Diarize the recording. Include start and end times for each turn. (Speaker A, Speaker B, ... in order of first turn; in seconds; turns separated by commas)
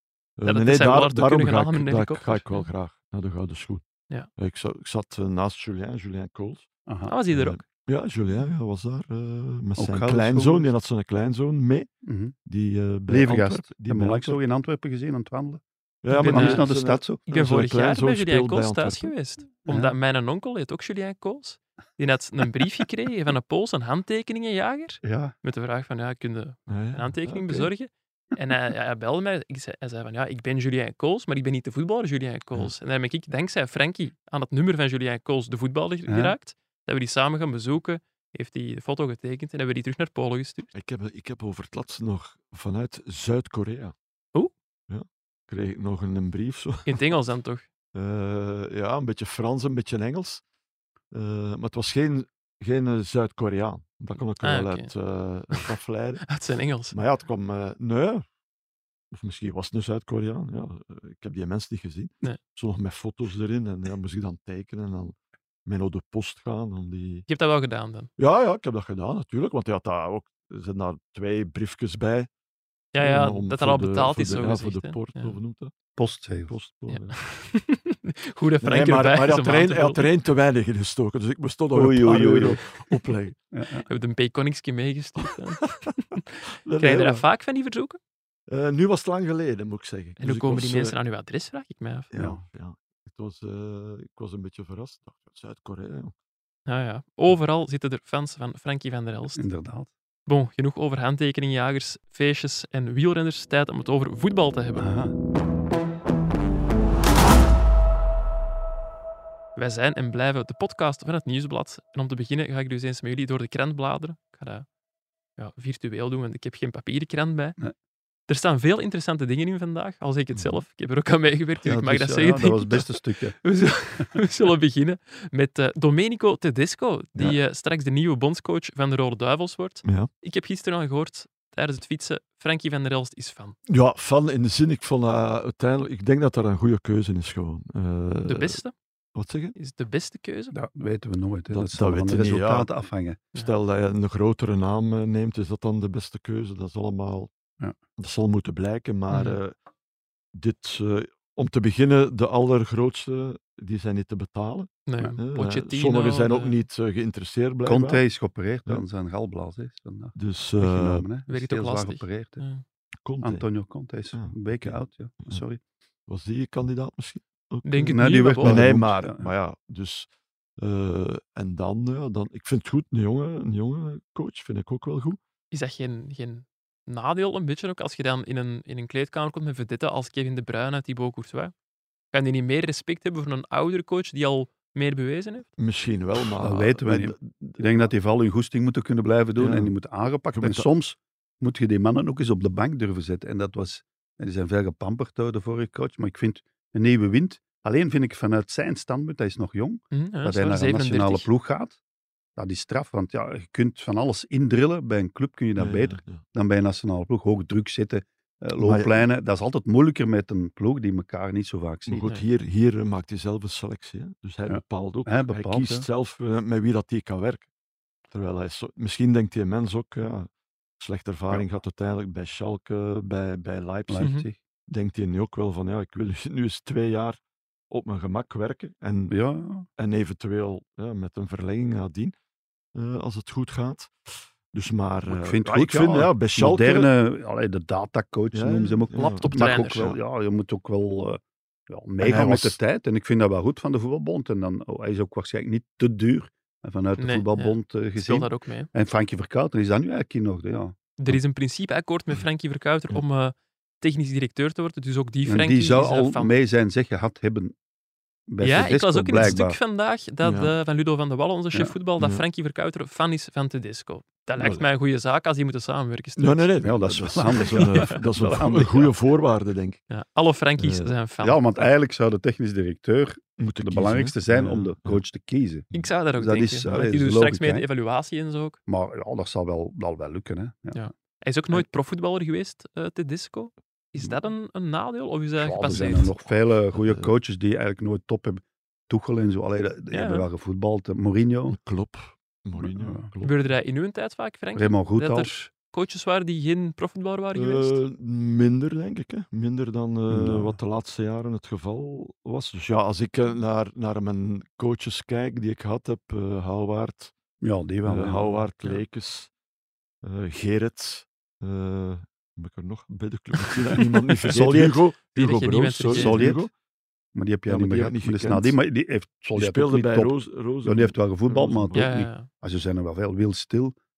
Speaker A: 0.4-3.9, Speaker B: 0.5-2.7, Speaker A: 4.4-6.7, Speaker C: 6.9-7.1, Speaker B: 7.1-7.6, Speaker A: 7.3-11.9, Speaker C: 9.8-10.7, Speaker C: 12.0-12.3, Speaker A: 12.5-14.4, Speaker C: 13.1-15.6, Speaker A: 16.0-19.1, Speaker B: 16.1-16.7, Speaker C: 16.2-17.2, Speaker B: 17.3-40.7, Speaker C: 19.7-20.0, Speaker C: 25.0-25.3, Speaker A: 26.7-27.7, Speaker C: 36.1-36.4, Speaker A: 40.7-43.9, Speaker A: 44.9-47.0, Speaker B: 46.9-47.7, Speaker A: 47.9-50.4, Speaker A: 51.1-56.3, Speaker B: 54.4-54.9, Speaker B: 56.3-57.0, Speaker A: 56.9-58.2, Speaker A: 59.1-67.3, Speaker B: 67.3-68.1, Speaker A: 68.2-72.3, Speaker B: 72.9-75.4, Speaker A: 73.0-75.7, Speaker C: 76.0-76.5, Speaker A: 76.5-77.2, Speaker B: 76.9-80.1, Speaker A: 78.6-83.4, Speaker C: 81.7-82.6, Speaker C: 83.5-83.9, Speaker B: 83.8-86.2, Speaker A: 85.2-86.0, Speaker A: 86.7-87.2, Speaker B: 86.8-88.0, Speaker A: 88.5-91.0, Speaker B: 90.2-92.1, Speaker A: 92.1-96.1, Speaker C: 92.1-92.4, Speaker B: 96.7-99.4, Speaker C: 99.3-99.9, Speaker B: 100.3-104.9, Speaker C: 104.8-105.1, Speaker B: 109.6-114.7, Speaker B: 115.4-117.6, Speaker B: 118.3-133.6, Speaker A: 120.3-120.6, Speaker C: 121.7-123.4, Speaker A: 129.8-130.1, Speaker A: 133.7-138.6, Speaker B: 138.2-138.7, Speaker A: 139.2-139.6, Speaker B: 139.6-140.6, Speaker C: 140.5-143.2, Speaker A: 141.5-142.7, Speaker A: 143.4-147.3, Speaker A: 148.0-149.5, Speaker B: 149.1-149.4, Speaker A: 150.3-158.0, Speaker B: 154.9-156.6, Speaker C: 157.7-162.4, Speaker A: 160.2-161.1, Speaker B: 161.3-162.6, Speaker A: 163.0-163.4, Speaker C: 163.2-165.6, Speaker A: 164.1-165.4, Speaker A: 166.1-175.2, Speaker B: 167.7-168.7, Speaker C: 167.8-169.3, Speaker B: 175.5-181.5, Speaker B: 182.1-185.5, Speaker A: 185.6-187.9, Speaker C: 186.4-201.8, Speaker A: 189.4-189.7, Speaker A: 190.3-190.7, Speaker B: 199.9-201.3, Speaker C: 202.4-212.1, Speaker A: 205.6-206.2, Speaker A: 208.6-208.9, Speaker A: 211.9-217.5, Speaker C: 214.5-215.9, Speaker A: 218.1-224.1, Speaker C: 223.9-224.4, Speaker A: 224.7-229.2, Speaker C: 229.1-229.7, Speaker A: 229.8-232.1, Speaker A: 232.8-236.9, Speaker C: 235.1-250.8, Speaker A: 238.3-240.0, Speaker B: 239.0-239.9, Speaker A: 242.0-242.6, Speaker B: 247.0-248.7, Speaker B: 251.0-256.3, Speaker C: 255.3-257.6, Speaker C: 258.3-259.6, Speaker B: 258.4-266.5, Speaker A: 260.2-260.5, Speaker A: 266.2-269.8, Speaker C: 266.6-268.9, Speaker B: 267.6-268.0, Speaker B: 269.9-271.7, Speaker A: 270.6-270.9, Speaker C: 271.2-277.7, Speaker A: 273.4-275.0, Speaker B: 275.7-278.6, Speaker C: 278.7-280.9, Speaker B: 280.8-286.1, Speaker C: 285.4-291.6, Speaker A: 285.7-286.1, Speaker A: 286.8-287.1, Speaker B: 289.9-290.3, Speaker A: 291.5-293.4, Speaker C: 292.6-293.1, Speaker B: 293.2-297.8, Speaker C: 294.6-295.3, Speaker A: 297.3-307.1, Speaker C: 300.1-300.6, Speaker C: 307.4-308.4, Speaker A: 307.9-309.3, Speaker A: 310.0-316.5, Speaker B: 313.4-316.3, Speaker C: 314.3-314.8, Speaker C: 315.9-316.5, Speaker C: 317.1-323.8, Speaker A: 317.5-318.6, Speaker A: 319.4-321.9, Speaker B: 321.8-322.3